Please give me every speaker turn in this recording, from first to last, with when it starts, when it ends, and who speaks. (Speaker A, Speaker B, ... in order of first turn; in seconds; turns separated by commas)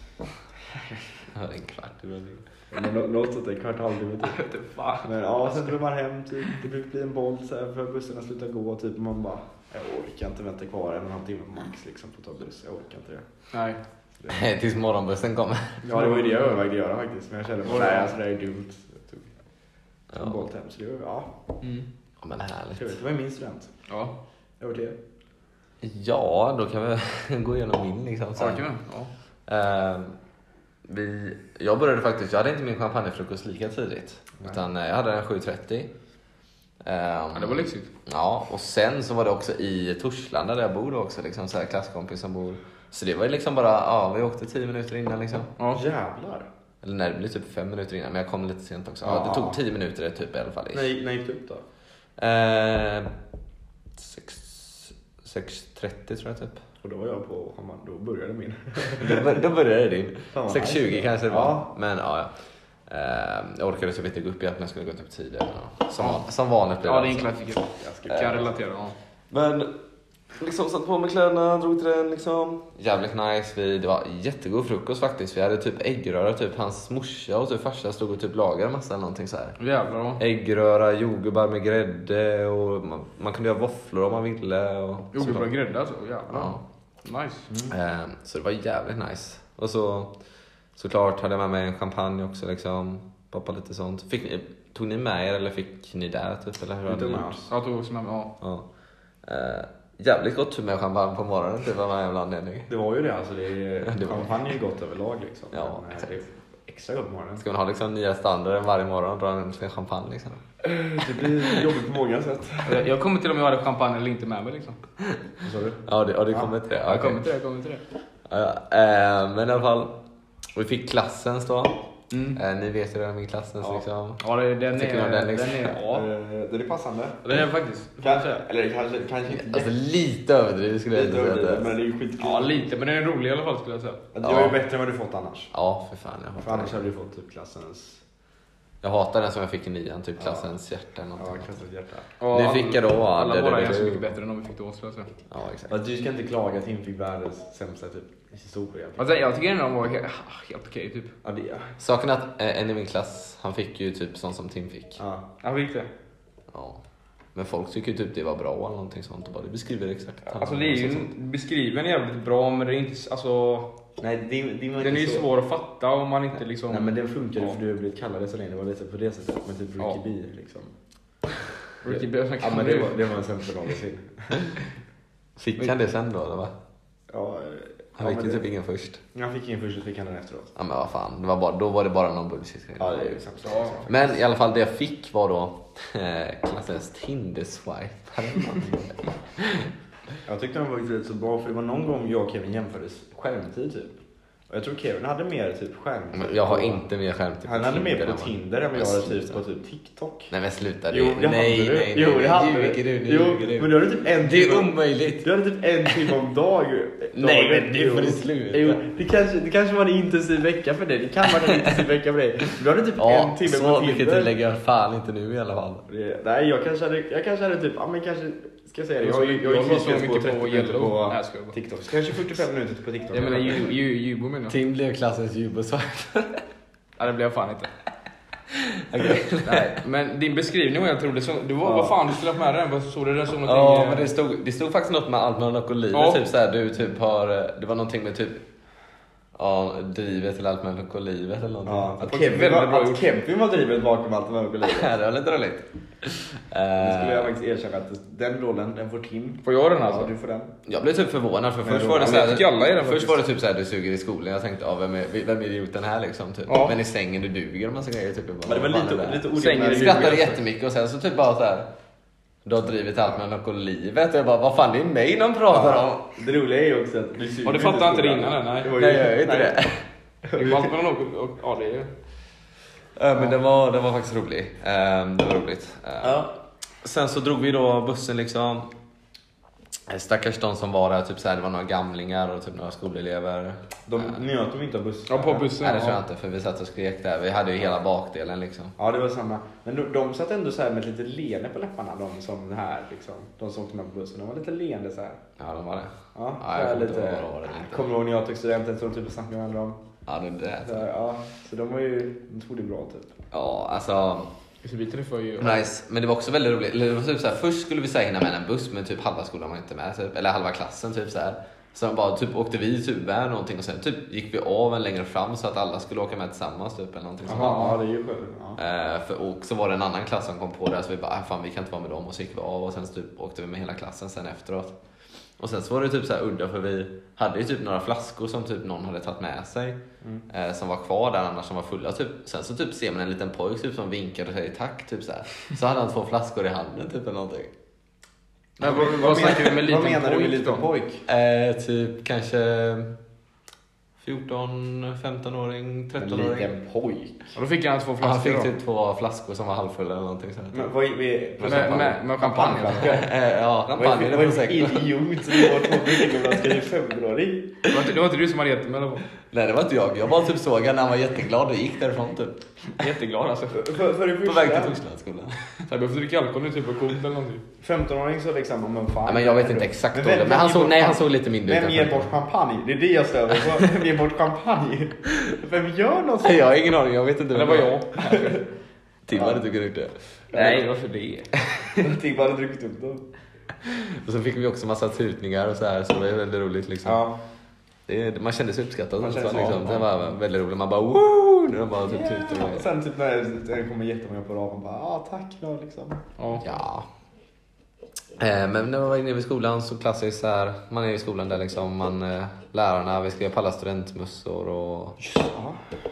Speaker A: 0.6-1.2, Speaker B: 1.3-2.5, Speaker A: 2.7-4.4, Speaker C: 4.2-5.8, Speaker A: 5.0-13.2, Speaker C: 13.5-13.8, Speaker B: 14.3-15.8, Speaker C: 15.8-16.5, Speaker A: 15.8-19.3, Speaker C: 17.6-18.1, Speaker B: 20.1-20.4, Speaker A: 20.1-21.3, Speaker B: 22.2-22.9, Speaker A: 22.8-23.7, Speaker C: 23.9-24.1, Speaker A: 24.6-25.0, Speaker B: 25.8-28.6, Speaker C: 28.4-29.1, Speaker B: 29.5-30.1, Speaker B: 30.9-35.9, Speaker B: 36.8-45.5, Speaker C: 37.3-37.9, Speaker C: 45.6-45.8, Speaker A: 45.7-46.5, Speaker B: 46.8-50.9, Speaker A: 49.0-49.6, Speaker A: 50.7-51.6, Speaker B: 52.2-53.1, Speaker B: 54.0-56.6, Speaker A: 56.8-59.4, Speaker B: 59.0-62.3, Speaker A: 60.3-61.7, Speaker B: 62.9-67.3, Speaker C: 66.0-66.2, Speaker C: 66.8-69.0, Speaker A: 67.8-68.5, Speaker B: 69.3-69.7, Speaker B: 70.4-79.6, Speaker C: 79.6-80.2, Speaker B: 80.2-85.5, Speaker C: 85.1-87.5, Speaker B: 86.3-86.6, Speaker A: 87.5-87.7, Speaker B: 87.7-90.1, Speaker B: 90.8-97.5, Speaker A: 96.8-97.4, Speaker C: 97.5-98.3, Speaker B: 99.2-102.7, Speaker A: 102.7-107.4, Speaker B: 103.8-104.5, Speaker B: 105.5-106.1, Speaker B: 107.4-110.4, Speaker A: 110.6-112.8, Speaker C: 112.6-114.8, Speaker A: 115.4-116.5, Speaker B: 115.8-117.2, Speaker C: 116.7-117.8, Speaker B: 118.3-119.9, Speaker B: 120.5-121.8, Speaker C: 122.1-122.4, Speaker B: 122.3-124.2, Speaker C: 124.2-126.1, Speaker B: 124.7-125.8, Speaker A: 125.9-127.2, Speaker C: 127.2-128.4, Speaker A: 128.0-129.7, Speaker B: 129.3-131.8, Speaker A: 130.9-132.7, Speaker C: 132.2-134.0, Speaker A: 134.1-135.5, Speaker B: 134.2-134.6, Speaker B: 135.5-136.8, Speaker A: 136.4-138.0, Speaker B: 138.8-141.5, Speaker A: 140.2-140.5, Speaker A: 141.2-142.1, Speaker C: 142.2-145.1, Speaker B: 142.3-144.0, Speaker B: 145.3-145.8, Speaker A: 145.7-149.1, Speaker C: 149.0-151.1, Speaker A: 151.2-151.7, Speaker B: 151.8-155.0, Speaker A: 155.0-155.2, Speaker C: 155.4-155.9, Speaker B: 156.5-156.8, Speaker B: 157.3-161.1, Speaker C: 160.2-163.7, Speaker A: 164.0-165.3, Speaker C: 164.8-167.5, Speaker A: 166.7-170.7, Speaker C: 171.8-173.0, Speaker A: 171.8-174.4, Speaker B: 175.4-176.5, Speaker A: 177.1-178.4, Speaker B: 178.0-179.0, Speaker A: 179.1-180.5, Speaker B: 180.6-183.2, Speaker A: 182.8-184.1, Speaker C: 183.4-183.9, Speaker B: 183.9-189.7, Speaker A: 190.2-194.0, Speaker A: 194.5-196.8, Speaker B: 196.1-199.4, Speaker A: 197.4-200.3, Speaker B: 200.3-205.3, Speaker A: 200.9-214.3, Speaker B: 205.8-206.1, Speaker B: 207.1-208.8, Speaker B: 213.0-215.8, Speaker A: 215.9-223.7, Speaker C: 219.0-221.5, Speaker C: 223.1-224.5, Speaker B: 224.5-226.4, Speaker C: 227.0-227.7, Speaker B: 228.5-229.8, Speaker C: 229.4-234.1, Speaker A: 231.6-232.0, Speaker B: 233.4-238.4, Speaker C: 235.9-236.2, Speaker B: 239.3-242.0, Speaker A: 241.6-244.9, Speaker C: 242.0-243.0, Speaker B: 244.6-247.3, Speaker A: 246.8-250.5, Speaker C: 249.4-250.1, Speaker B: 250.7-261.7, Speaker A: 251.6-252.4, Speaker C: 252.0-253.2, Speaker C: 256.5-256.8, Speaker A: 258.4-260.4, Speaker C: 259.3-260.2, Speaker B: 262.4-266.2, Speaker A: 265.5-269.6, Speaker C: 267.4-268.7, Speaker B: 268.7-269.8, Speaker A: 270.2-270.7, Speaker C: 270.3-271.9, Speaker B: 272.9-276.3, Speaker A: 276.0-276.3, Speaker B: 276.8-278.7, Speaker B: 279.9-284.2, Speaker A: 283.9-285.5, Speaker C: 285.1-286.0, Speaker B: 285.6-288.7, Speaker A: 288.8-295.2, Speaker B: 295.4-297.9, Speaker A: 296.1-299.8, Speaker B: 300.1-300.9, Speaker A: 300.6-303.1, Speaker B: 303.3-304.3, Speaker C: 304.6-305.6, Speaker B: 305.4-317.7, Speaker A: 317.2-318.6, Speaker C: 317.3-317.8, Speaker B: 318.6-324.7, Speaker B: 325.4-337.5, Speaker C: 338.6-340.6, Speaker A: 338.6-341.0, Speaker B: 341.1-342.9, Speaker B: 344.0-346.5, Speaker A: 346.0-347.3, Speaker C: 347.3-348.5, Speaker B: 348.0-350.7, Speaker A: 350.5-353.1, Speaker B: 351.4-352.0, Speaker C: 351.4-353.0, Speaker B: 352.7-356.3, Speaker A: 353.7-357.5, Speaker C: 357.7-359.1, Speaker B: 359.3-362.4, Speaker C: 362.8-363.6, Speaker A: 363.5-364.8, Speaker B: 364.2-365.6, Speaker C: 365.7-367.4, Speaker A: 367.6-376.4, Speaker B: 369.1-372.1, Speaker B: 376.2-377.7, Speaker C: 377.3-378.4, Speaker A: 378.1-378.4, Speaker B: 379.1-379.9, Speaker A: 379.1-379.4, Speaker A: 380.3-380.6, Speaker C: 380.3-381.3, Speaker B: 381.6-381.8, Speaker A: 381.8-383.0, Speaker B: 383.6-387.0, Speaker A: 386.8-387.2, Speaker B: 387.9-392.7, Speaker A: 389.0-390.1, Speaker A: 391.8-396.0, Speaker C: 396.2-396.4, Speaker B: 396.4-396.9, Speaker B: 398.2-405.0, Speaker A: 405.0-405.6